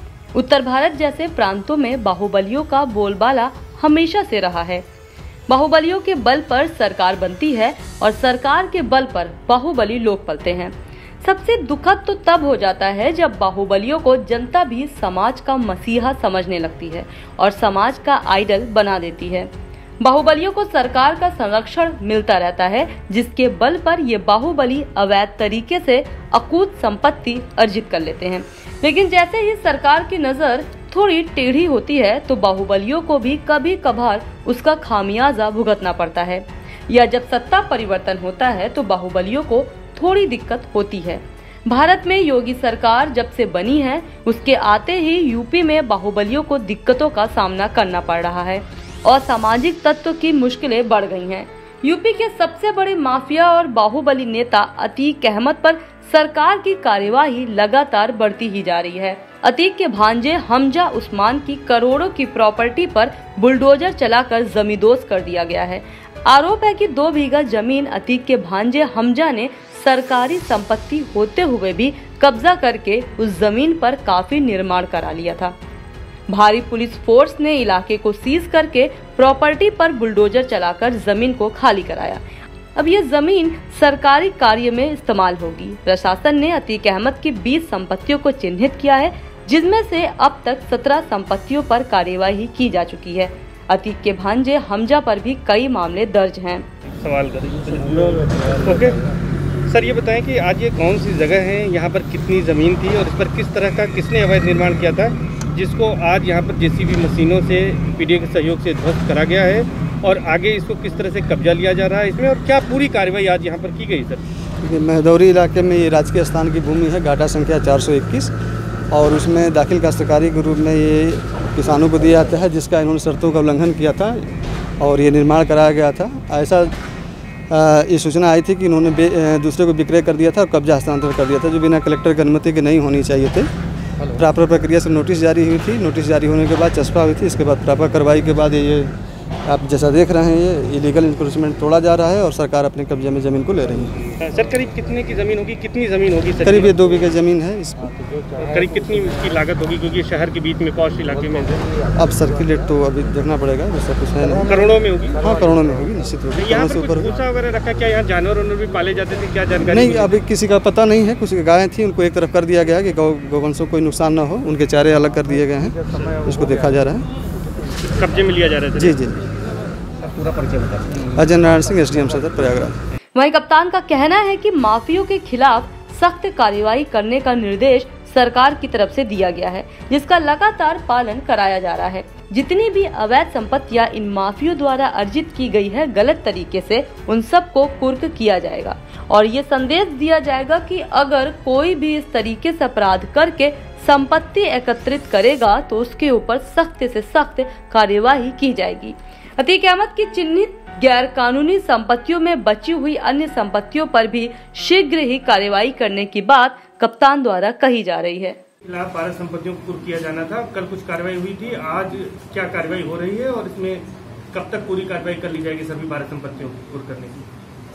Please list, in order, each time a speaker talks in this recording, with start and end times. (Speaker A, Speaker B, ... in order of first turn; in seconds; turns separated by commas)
Speaker A: 0.3-4.9, Speaker A: 5.5-19.5, Speaker A: 20.0-75.5, Speaker A: 76.3-82.2, Speaker A: 82.8-96.7, Speaker B: 96.9-99.0, Speaker B: 99.7-114.2, Speaker C: 114.6-118.3, Speaker C: 118.9-124.2, Speaker C: 124.8-126.8, Speaker C: 127.5-133.5, Speaker C: 134.1-138.9, Speaker C: 139.4-143.9, Speaker B: 144.2-146.8, Speaker C: 146.4-147.9, Speaker B: 148.4-151.7, Speaker C: 151.9-154.6, Speaker B: 154.4-155.2, Speaker C: 155.1-157.1, Speaker B: 156.4-160.2, Speaker C: 159.7-167.1, Speaker B: 165.9-166.2, Speaker B: 167.8-169.0, Speaker C: 168.8-169.2, Speaker B: 170.0-171.1, Speaker C: 171.1-172.8, Speaker A: 173.1-208.4, Speaker B: 208.6-217.2